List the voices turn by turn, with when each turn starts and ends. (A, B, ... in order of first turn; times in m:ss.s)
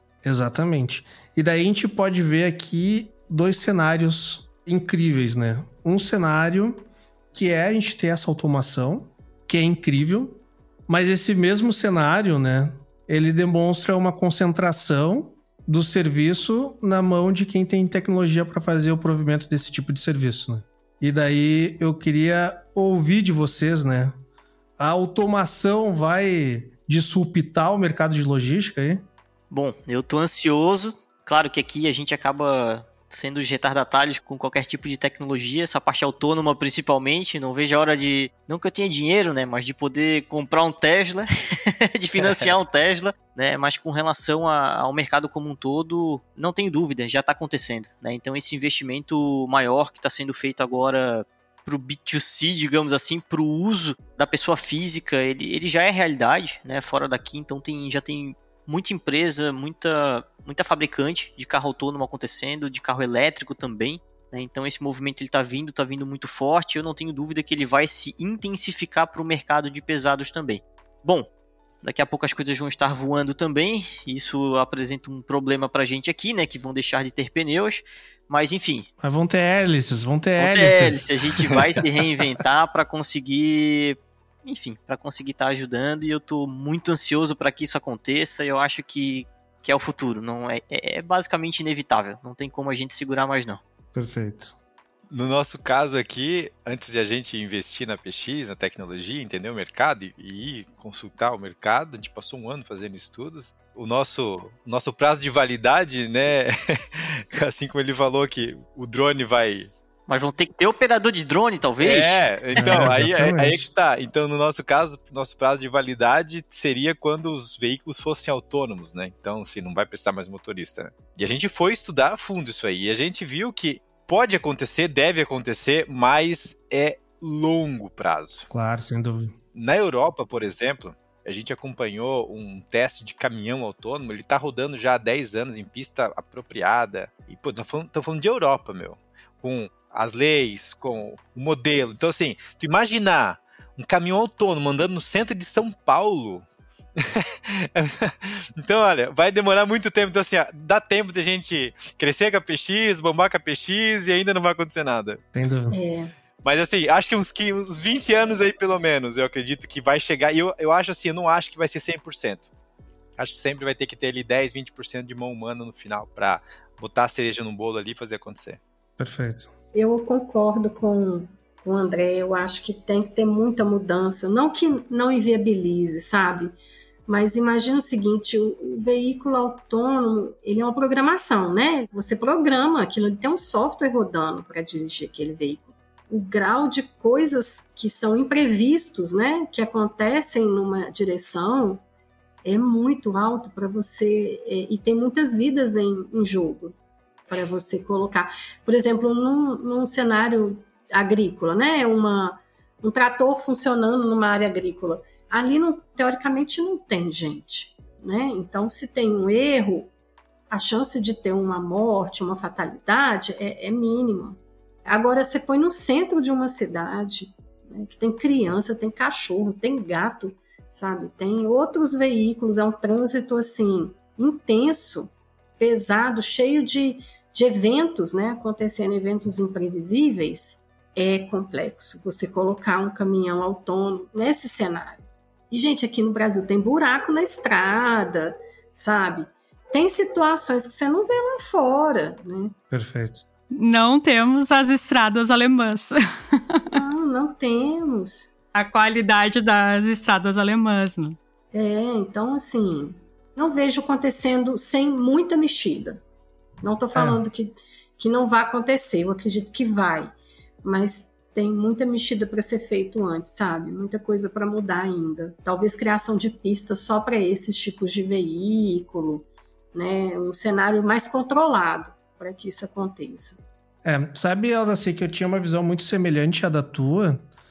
0:00.2-0:24.1 A
0:24.8-0:29.0 A
0:29.5-1:11.3 B
0:42.2-0:42.5 C
1:11.8-1:18.9 B
1:19.0-1:21.0 A
1:20.4-1:33.6 B
1:33.9-1:34.6 A
1:35.1-1:49.7 C
1:50.1-1:52.9 B
1:51.8-2:08.5 C
1:52.6-1:53.7 A
2:08.5-2:09.4 A
2:09.5-2:26.4 C
2:27.0-2:35.2 C
2:35.3-2:35.8 A
2:35.7-2:36.1 D
2:36.4-2:42.5 C
2:43.2-2:48.6 C
2:49.0-2:49.5 A
2:49.7-2:56.5 D
2:57.1-3:11.8 D
3:12.4-3:16.7 D
3:17.3-3:29.9 D
3:30.5-4:02.5 D
4:02.7-4:03.2 A
4:03.5-4:06.8 E
4:06.7-4:08.3 D
4:08.5-4:11.2 E
4:11.5-4:16.0 D
4:16.6-4:20.1 D
4:16.9-4:17.2 A
4:20.6-4:33.4 D
4:33.8-4:37.2 A